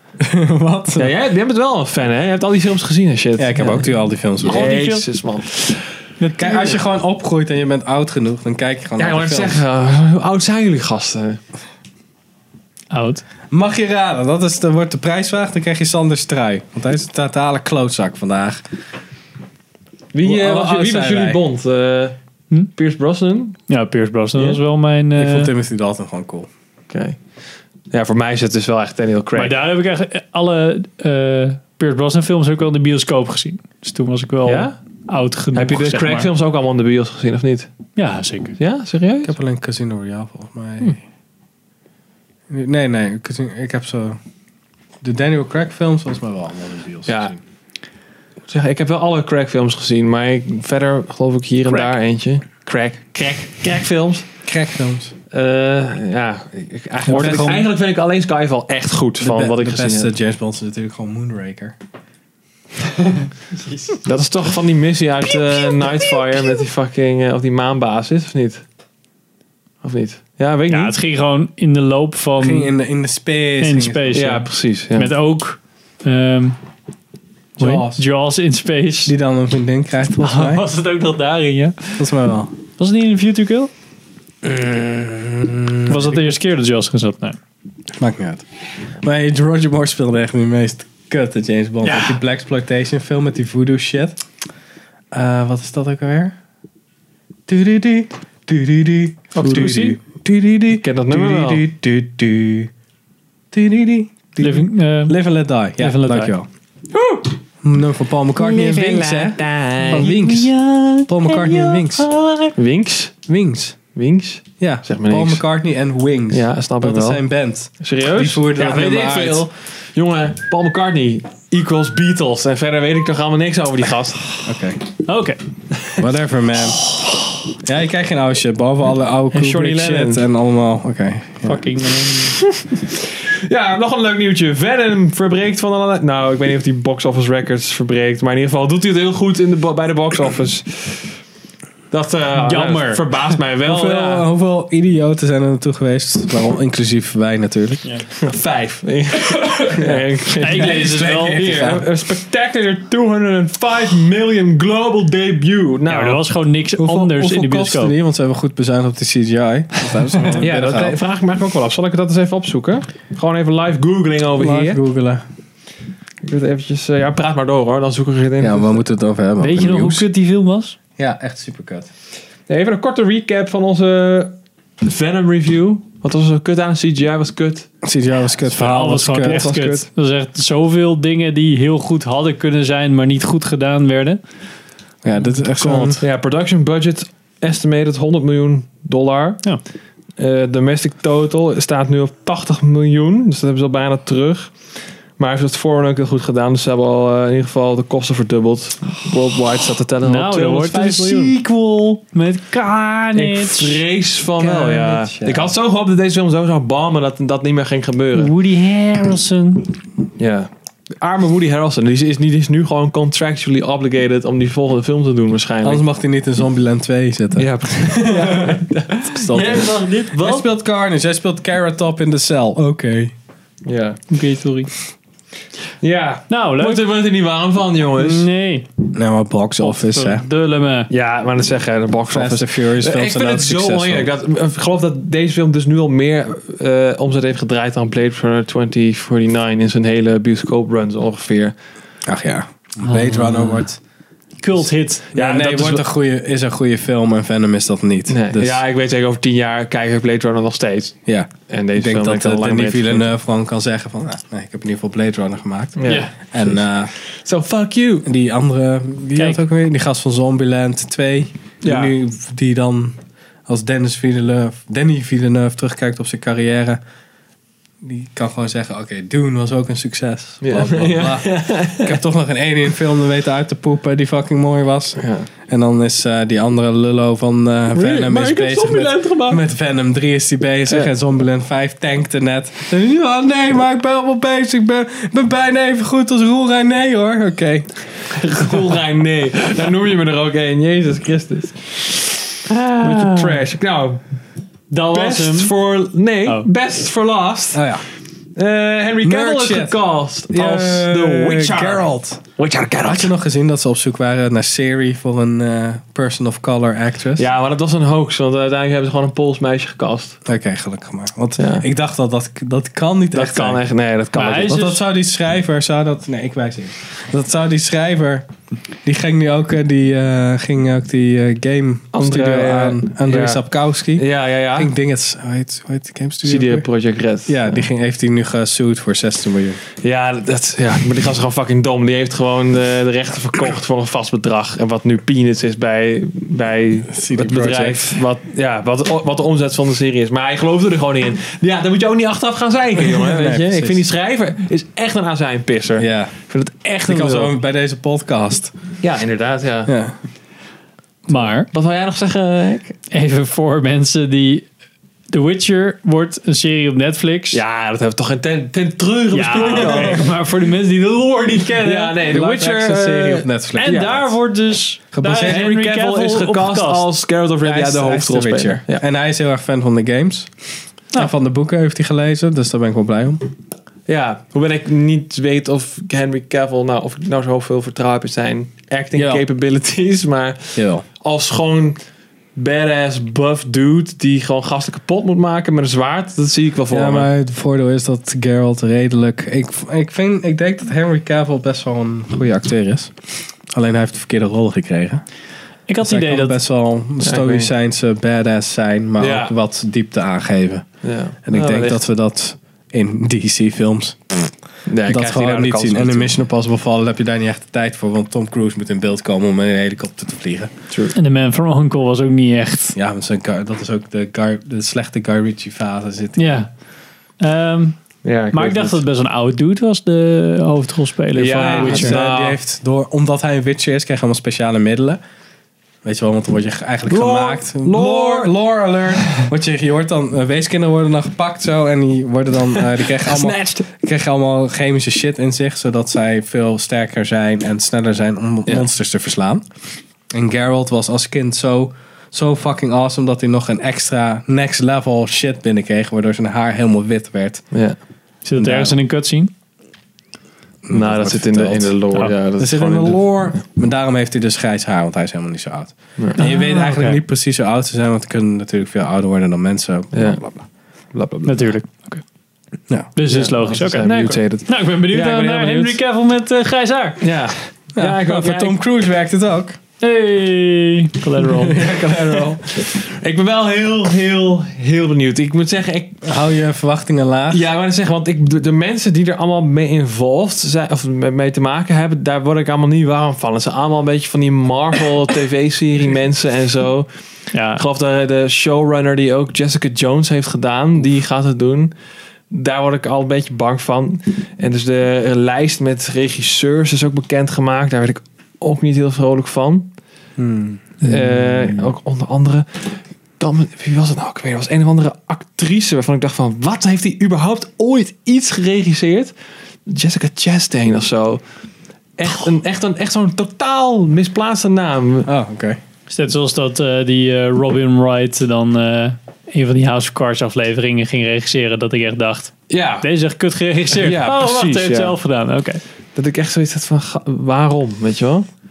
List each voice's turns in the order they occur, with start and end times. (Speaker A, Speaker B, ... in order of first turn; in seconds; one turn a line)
Speaker A: 0.2-1.1
Speaker B: 1.0-3.9
Speaker A: 3.4-4.7
Speaker C: 4.4-5.1
Speaker B: 4.4-5.8
Speaker C: 6.2-6.8
Speaker A: 6.4-9.6
Speaker B: 9.0-11.4
Speaker C: 12.9-13.2
Speaker A: 13.5-18.6
Speaker B: 20.1-22.2
Speaker A: 20.2-21.4
Speaker B: 22.7-23.6
Speaker C: 23.7-25.5
Speaker B: 24.4-24.6
Speaker A: 25.1-26.5
Speaker B: 26.9-27.2
Speaker B: 27.9-29.6
Speaker C: 29.4-36.3
Speaker B: 34.5-34.8
Speaker B: 35.5-37.7
Speaker C: 38.0-38.6
Speaker B: 38.6-39.3
Speaker A: 39.2-41.0
Speaker A: 42.5-44.2
Speaker A: 45.0-47.4
Speaker B: 47.1-47.3
Speaker B: 48.5-54.3
Speaker A: 54.5-55.1
Speaker B: 55.3-60.1
Speaker C: 57.1-57.7
Speaker A: 59.2-61.8
Speaker B: 64.0-68.6
Speaker B: 69.8-71.0
Speaker C: 70.7-72.7
Speaker A: 72.4-74.3
Speaker C: 73.6-76.6
Speaker B: 74.1-75.1
Speaker A: 77.6-78.0
Speaker C: 77.6-79.1
Speaker A: 79.1-80.6
Speaker C: 80.2-82.1
Speaker A: 82.0-82.5
Speaker C: 82.8-83.7
Speaker A: 84.4-86.3
Speaker C: 85.9-87.4
Speaker A: 88.0-88.4
Speaker A: 89.0-94.2
Speaker C: 91.8-92.2
Speaker A: 95.1-96.3
Speaker A: 97.5-102.7
Speaker C: 99.4-100.0
Speaker B: 99.4-99.7
Speaker B: 100.7-101.7
Speaker A: 103.5-106.5
Speaker C: 104.4-105.2
Speaker C: 105.8-106.3
Speaker B: 106.9-107.3
Speaker A: 107.6-112.1
Speaker B: 108.4-110.1
Speaker C: 109.8-112.5
Speaker B: 112.6-113.2
Speaker A: 113.3-113.8
Speaker B: 113.9-115.5
Speaker A: 114.6-119.5
Speaker B: 116.3-117.2
Speaker B: 117.8-124.5
Speaker A: 124.5-124.8
Speaker C: 125.0-125.4
Speaker A: 126.0-126.9
Speaker A: 127.6-131.6
Speaker B: 129.3-130.3
Speaker C: 131.4-132.5
Speaker B: 132.4-141.1
Speaker B: 141.9-144.3
Speaker C: 142.4-143.4
Speaker A: 143.6-147.9
Speaker B: 148.2-156.2
Speaker A: 149.8-151.9
Speaker C: 150.4-151.5
Speaker C: 155.9-157.9
Speaker A: 156.8-161.0
Speaker B: 160.4-164.8
Speaker A: 164.4-165.2
Speaker B: 166.2-168.8
Speaker A: 168.4-170.1
Speaker C: 169.4-170.8
Speaker A: 171.0-171.9
Speaker B: 172.5-177.7
Speaker A: 177.8-179.9
Speaker C: 178.5-184.2
Speaker B: 179.2-179.6
Speaker A: 185.0-186.0
Speaker C: 185.6-186.0
Speaker B: 186.0-189.4
Speaker B: 190.2-194.6
Speaker B: 195.2-201.4
Speaker C: 200.0-203.8
Speaker B: 203.2-208.3
Speaker A: 204.4-205.5
Speaker C: 208.1-209.8
Speaker B: 210.2-210.5
Speaker B: 211.0-215.8
Speaker A: 215.6-223.1
Speaker B: 217.4-219.4
Speaker C: 219.3-220.5
Speaker B: 223.7-224.0
Speaker C: 224.1-224.7
Speaker B: 225.8-228.3
Speaker C: 226.3-226.8
Speaker C: 228.0-228.8
Speaker A: 228.9-230.3
Speaker C: 229.6-230.9
Speaker B: 230.9-241.6
Speaker A: 232.1-234.1
Speaker A: 242.1-243.8
Speaker C: 242.8-243.7
Speaker C: 244.4-245.1
Speaker A: 245.1-248.6
Speaker B: 245.1-245.9
Speaker B: 248.1-251.0
Speaker A: 251.1-256.9
Speaker B: 251.5-253.1
Speaker B: 255.8-258.1
Speaker A: 258.1-266.8
Speaker C: 259.2-259.4
Speaker B: 261.6-261.9
Speaker A: 267.8-287.7
Speaker B: 270.4-272.0
Speaker B: 275.0-275.3
Speaker B: 277.7-279.4
Speaker B: 288.1-294.0
Speaker C: 292.5-293.4
Speaker C: 294.7-295.5
Speaker B: 294.9-297.8
Speaker A: 297.5-297.8
Speaker B: 298.4-303.1
Speaker A: 299.0-299.8
Speaker A: 300.3-302.2
Speaker A: 302.8-307.3
Speaker B: 307.2-310.2
Speaker A: 310.3-313.6
Speaker B: 311.4-311.6
Speaker B: 313.1-314.8
Speaker C: 314.1-314.8
Speaker A: 314.6-318.3
Speaker A: 318.8-326.7
Speaker B: 321.9-323.4
Speaker B: 323.9-324.7
Speaker B: 326.2-327.7
Speaker A: 327.3-329.6
Speaker B: 329.8-347.4
Speaker A: 336.9-338.0
Speaker A: 342.8-343.9
Speaker A: 345.8-346.1
Speaker A: 346.9-348.5
Speaker B: 348.8-349.7
Speaker A: 349.7-350.0
Speaker C: 351.1-351.5
Speaker B: 351.5-352.8
Speaker C: 352.9-354.5
Speaker C: 355.1-357.4
Speaker B: 357.3-360.1
Speaker C: 359.1-362.6
Speaker A: 359.4-360.0
Speaker B: 361.6-364.1
Speaker A: 362.1-364.0
Speaker C: 363.5-366.9
Speaker A: 364.9-365.4
Speaker B: 365.2-368.8
Speaker A: 367.4-370.3
Speaker A: 370.9-373.2
Speaker B: 373.9-381.8
Speaker A: 378.9-379.2
Speaker A: 380.6-380.9
Speaker B: 382.4-387.1
Speaker A: 386.7-392.9
Speaker A: 393.5-395.0
Speaker C: 395.7-396.4
Speaker A: 395.8-400.7
Speaker B: 397.0-397.5
Speaker B: 399.0-399.3
Speaker B: 400.8-401.8
Speaker A: 401.2-404.3
Speaker B: 404.7-406.1
Speaker A: 404.9-410.5
Speaker B: 410.7-411.0
Speaker C: 410.9-412.8
Speaker A: 412.8-416.3
Speaker C: 416.2-416.5
Speaker C: 417.2-417.8
Speaker B: 418.0-418.8
Speaker C: 418.3-422.0
Speaker B: 421.2-422.4
Speaker A: 421.3-425.0
Speaker A: 425.8-439.4
Speaker B: 426.9-428.3
Speaker B: 432.6-433.7
Speaker A: 440.1-447.5
Speaker B: 447.5-447.8
Speaker C: 448.2-449.3
Speaker A: 448.4-448.8
Speaker A: 450.6-451.8
Speaker B: 450.7-453.4
Speaker A: 452.4-460.3
Speaker B: 456.0-456.2
Speaker C: 456.2-457.0
Speaker B: 459.9-460.4
Speaker B: 460.9-461.6
Speaker C: 461.2-462.0
Speaker C: 462.9-467.1
Speaker B: 463.1-465.8
Speaker B: 467.0-468.6
Speaker A: 467.8-469.6
Speaker C: 469.8-471.7
Speaker A: 471.2-472.4
Speaker B: 471.9-476.1
Speaker A: 476.0-477.4
Speaker B: 477.3-486.9
Speaker C: 487.3-487.6
Speaker B: 487.4-491.7
Speaker B: 492.3-499.7
Speaker A: 500.2-500.6
Speaker B: 500.8-509.1
Speaker B: 509.7-511.2
Speaker B: 512.0-515.1
Speaker A: 515.1-515.6
Speaker C: 515.9-525.6
Speaker B: 522.5-522.9
Speaker B: 523.7-525.0
Speaker B: 526.0-528.3